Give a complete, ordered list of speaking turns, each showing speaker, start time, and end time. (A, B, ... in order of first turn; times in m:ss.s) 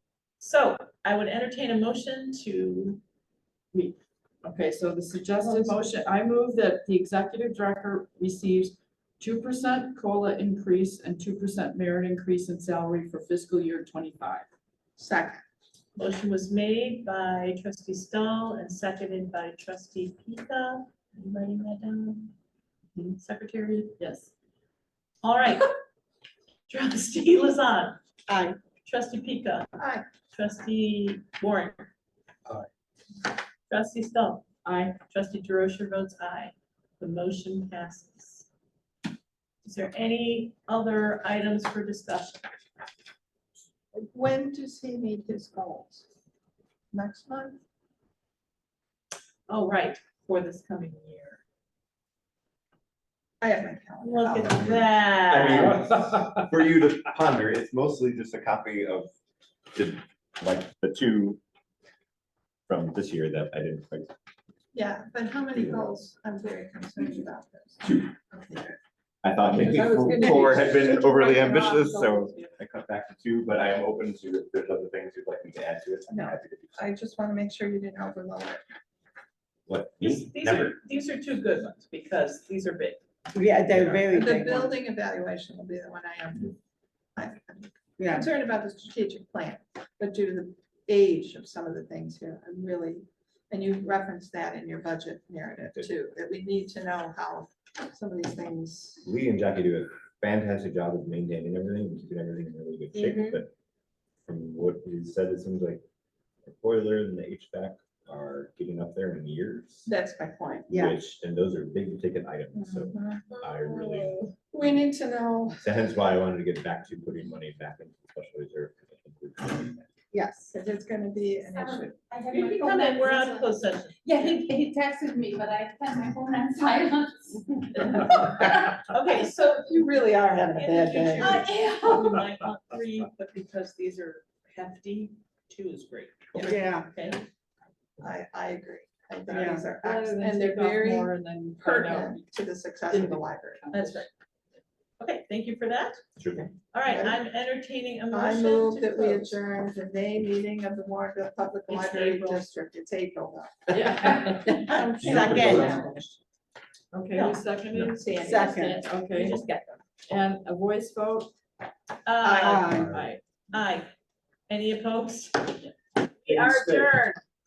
0:00.4-0:03.0 A
0:03.7-0:14.4 B
0:05.4-0:05.7 A
0:15.0-0:15.4 C
0:16.0-0:22.3 A
0:23.2-0:24.0 A
0:24.0-0:24.3 B
0:25.2-0:25.8 A
0:26.7-0:28.0 A
0:28.3-0:28.6 C
0:28.8-0:29.7 A
0:29.8-0:30.0 C
0:30.3-0:31.9 A
0:33.7-0:34.4 A
0:34.6-0:35.0 B
0:35.1-0:38.5 A
0:39.6-0:42.5 A
0:43.9-0:46.0 C
0:46.9-0:47.6 C
0:49.5-0:51.4 A
0:53.4-0:54.8 C
0:54.0-0:55.8 A
0:55.3-0:59.1 D
0:59.7-1:01.4 D
1:02.7-1:04.1 D
1:04.7-1:08.7 C
1:05.5-1:05.9 D
1:07.8-1:08.1 D
1:09.2-1:16.8 D
1:09.4-1:12.5 C
1:16.1-1:18.6 C
1:19.7-1:20.8 D
1:20.0-1:23.0 A
1:23.3-1:24.8 E
1:23.7-1:24.0 D
1:24.1-1:26.6 C
1:27.2-1:39.0 C
1:28.0-1:28.3 E
1:39.0-1:43.5 D
1:44.2-1:45.8 D
1:46.4-1:49.9 D
1:49.8-1:50.9 C
1:50.7-1:54.3 D
1:52.5-1:53.4 C
1:54.5-1:55.6 C
1:55.6-1:59.9 D
2:00.1-2:02.1 C
2:01.5-2:03.5 F
2:02.3-2:04.1 A
2:04.0-2:08.8 F
2:08.0-2:08.2 A
2:08.8-2:17.2 A
2:09.1-2:11.5 C
2:16.4-2:16.9 E
2:18.0-2:23.7 C
2:19.3-2:19.7 E
2:19.8-2:22.2 B
2:22.9-2:24.0 B
2:23.7-2:24.1 A
2:25.0-2:26.0 A
2:26.2-2:26.5 D
2:26.7-2:29.4 A
2:26.9-2:27.2 C
2:28.1-2:35.9 C
2:31.7-2:32.5 A
2:33.7-2:35.7 B
2:34.1-2:36.0 E
2:35.4-2:35.7 D
2:36.9-2:39.4 B
2:37.1-2:37.4 A
2:37.8-2:38.8 C
2:38.2-2:38.8 E
2:39.1-2:39.8 A
2:40.1-2:41.3 B
2:42.0-2:42.9 A
2:42.2-2:43.0 C
2:42.4-2:42.9 E
2:42.7-2:43.2 B
2:43.5-2:43.9 A
2:44.5-2:45.6 A
2:46.2-2:46.9 A
2:46.4-2:46.7 E